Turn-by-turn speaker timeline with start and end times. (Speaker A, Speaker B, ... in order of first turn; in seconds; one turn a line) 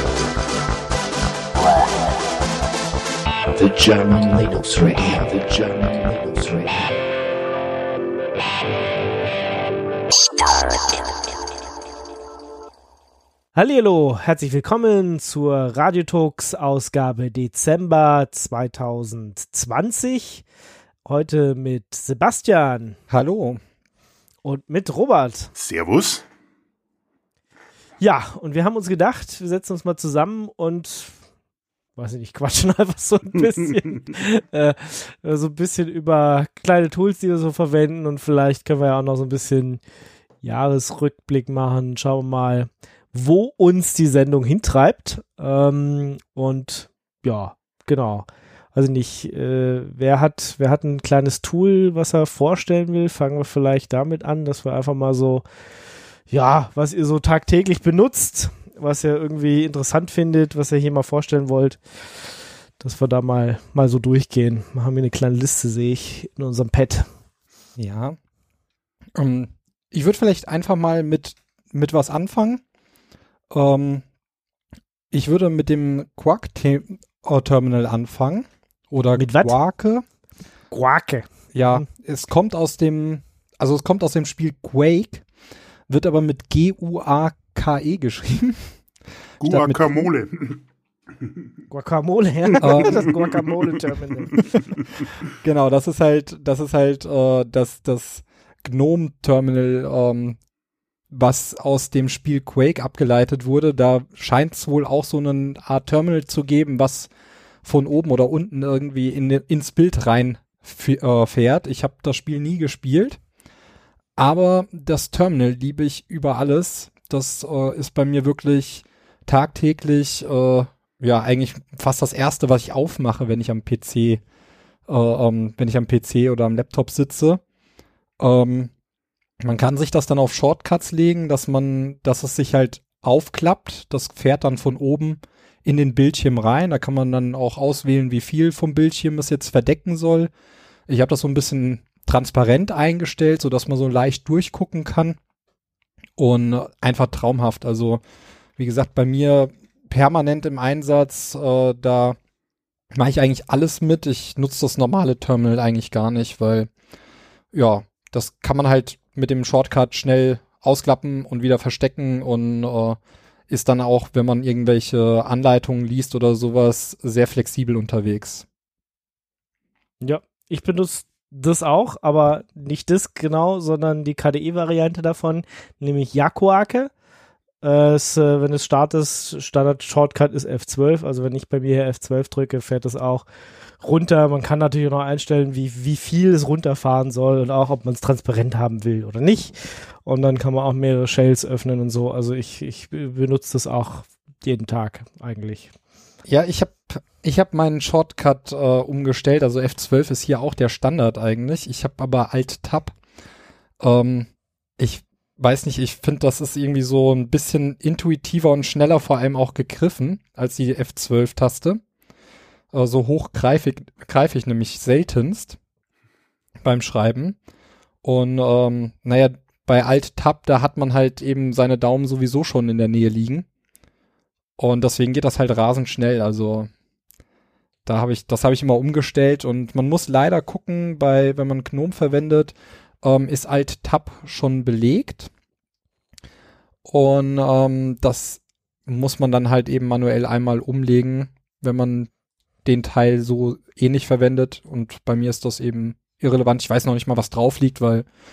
Speaker A: 3.5-6.9
Speaker B: 13.6-20.4
Speaker B: 21.1-23.0
Speaker C: 23.1-23.6
Speaker B: 24.4-25.5
Speaker D: 25.6-26.2
Speaker B: 28.0-31.1
Speaker B: 32.0-39.8
Speaker B: 40.4-55.5
Speaker B: 56.3-67.1
Speaker C: 67.8-68.2
Speaker C: 69.2-72.6
Speaker C: 73.5-74.0
Speaker C: 75.1-80.0
Speaker B: 79.2-79.5
Speaker B: 80.7-81.9
Speaker C: 81.5-85.2
Speaker C: 85.9-88.7
Speaker D: 89.4-90.6
Speaker C: 89.4-90.1
Speaker B: 91.7-94.4
Speaker C: 92.6-93.1
Speaker D: 92.7-93.7
Speaker C: 95.4-100.4
Speaker C: 101.1-107.1
Speaker C: 107.7-113.2
Speaker C: 114.2-124.2
Speaker C: 124.9-127.4
Speaker C: 128.2-128.7
Speaker C: 129.4-140.3
Speaker C: 140.9-145.2
Speaker C: 146.2-148.0
Speaker C: 148.6-152.2
Speaker C: 152.9-156.7
Speaker C: 157.5-168.5
Speaker B: 170.0-176.9
Speaker B: 177.6-183.2
Speaker B: 183.8-195.7
Speaker C: 196.3-203.0
Speaker C: 203.8-211.8
Speaker C: 212.7-215.6
Speaker C: 216.6-217.4
Speaker C: 218.0-223.5
Speaker C: 224.6-226.7
Speaker C: 227.9-235.3
Speaker C: 236.9-242.1
Speaker C: 242.7-248.1